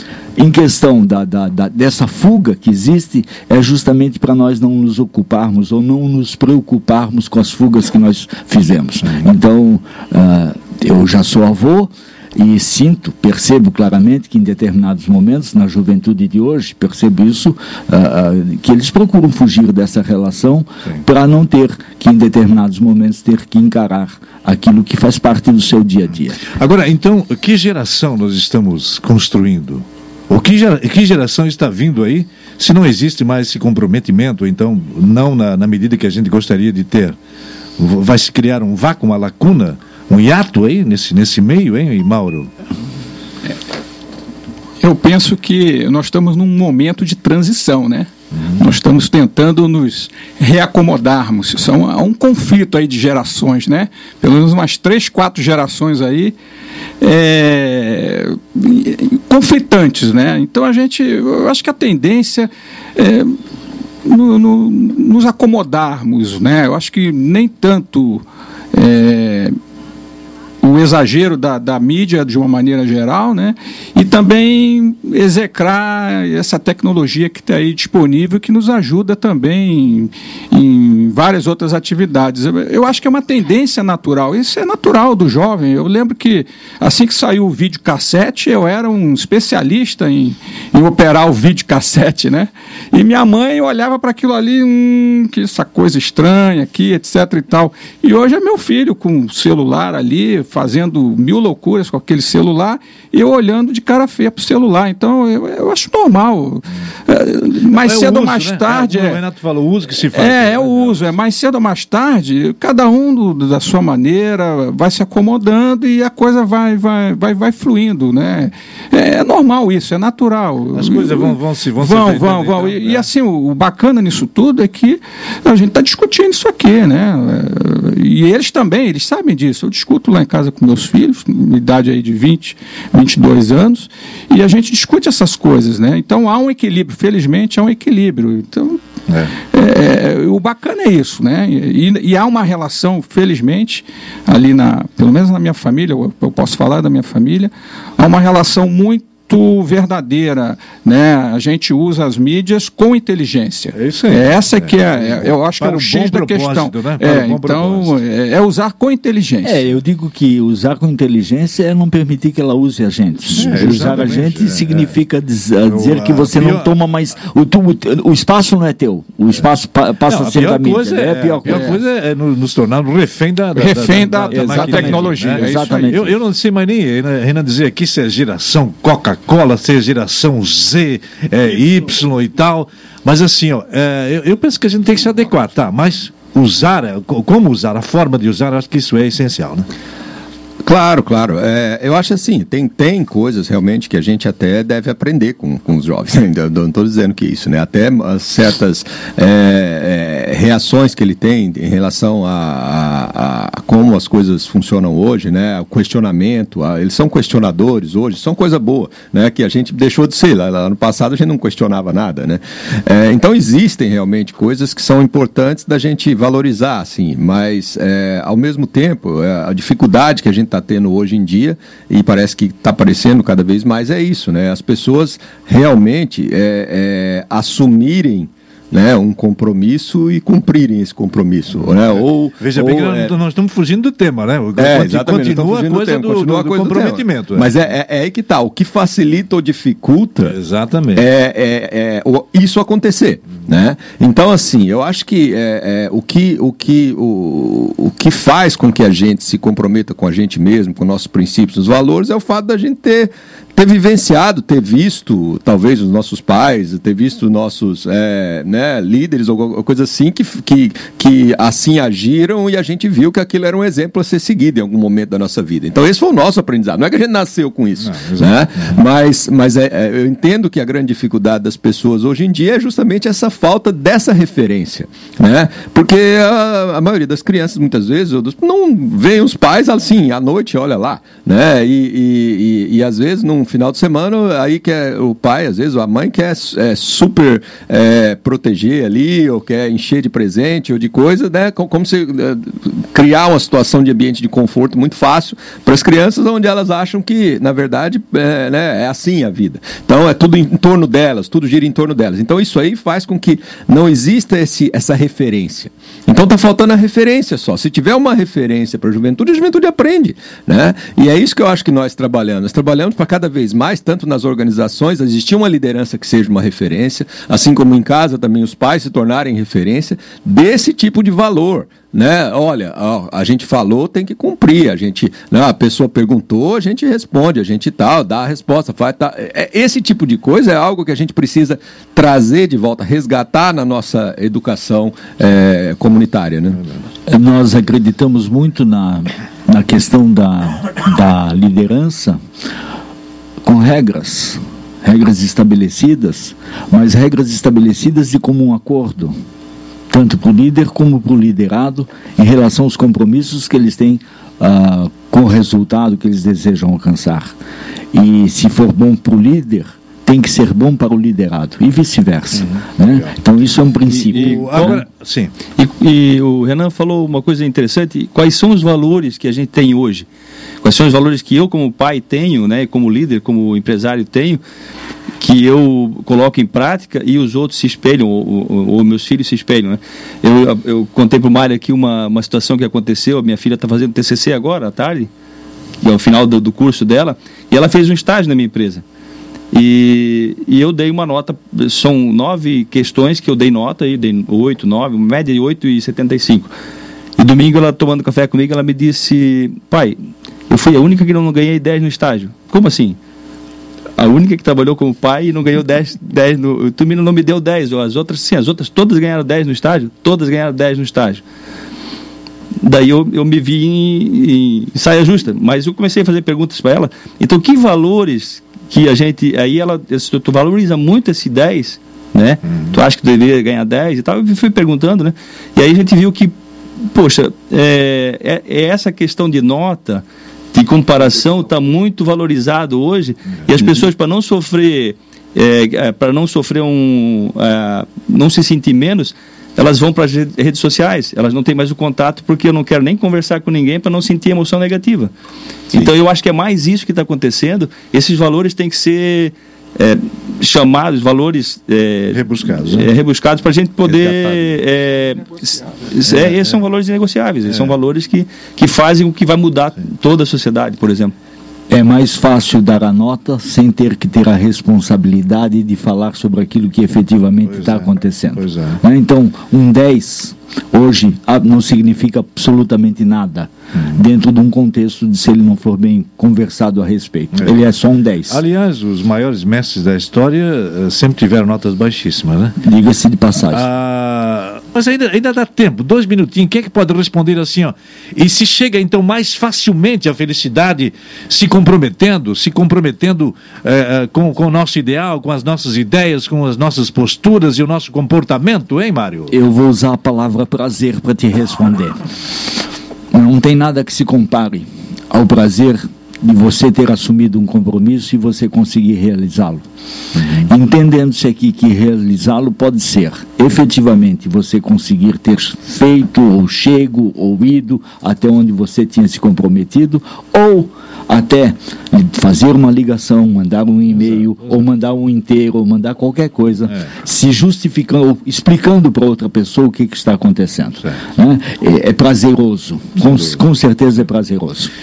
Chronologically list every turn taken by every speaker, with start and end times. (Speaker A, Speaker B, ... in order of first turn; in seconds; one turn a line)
Speaker A: 0.3-26.4
Speaker B: 9.0-9.3
Speaker B: 26.5-37.2
Speaker B: 37.8-42.5
Speaker C: 44.8-56.3
Speaker C: 57.0-63.4
Speaker C: 64.0-69.5
Speaker C: 70.6-109.2
Speaker B: 107.7-111.1
Speaker C: 110.1-138.8
Speaker B: 120.7-123.1
Speaker B: 139.1-139.3
Speaker C: 139.5-159.6
Speaker B: 153.7-158.0
Speaker A: 159.4-171.7
Speaker B: 163.3-164.9
Speaker B: 165.7-166.7
Speaker B: 170.1-189.7
Speaker C: 171.5-171.8
Speaker C: 173.6-176.1
Speaker A: 174.3-176.2
Speaker D: 190.6-233.1
Speaker B: 231.5-237.5
Speaker D: 234.6-240.3
Speaker B: 240.2-241.1
Speaker D: 240.9-336.6
Speaker B: 267.8-268.8
Speaker A: 337.1-342.2
Speaker A: 343.4-349.1
Speaker A: 349.9-357.3
Speaker A: 357.9-364.8
Speaker B: 362.4-363.1
Speaker E: 363.9-364.8
Speaker B: 364.1-365.3
Speaker E: 365.6-370.1
Speaker E: 370.6-374.4
Speaker E: 375.2-385.1
Speaker E: 385.8-388.8
Speaker E: 389.5-396.5
Speaker E: 397.2-400.0
Speaker E: 400.5-403.0
Speaker E: 404.0-411.2
Speaker E: 412.6-426.3
Speaker B: 422.4-422.8
Speaker E: 426.9-445.1
Speaker E: 445.7-461.1
Speaker B: 452.1-452.9
Speaker B: 456.1-456.6
Speaker B: 457.4-457.8
Speaker A: 461.7-478.4
Speaker B: 467.5-468.8
Speaker B: 478.3-482.6
Speaker A: 482.6-483.6
Speaker B: 483.5-499.3
Speaker A: 499.3-502.0
Speaker A: 503.1-509.6
Speaker B: 510.1-510.5
Speaker A: 510.4-534.7
Speaker B: 523.9-524.6
Speaker B: 533.0-533.4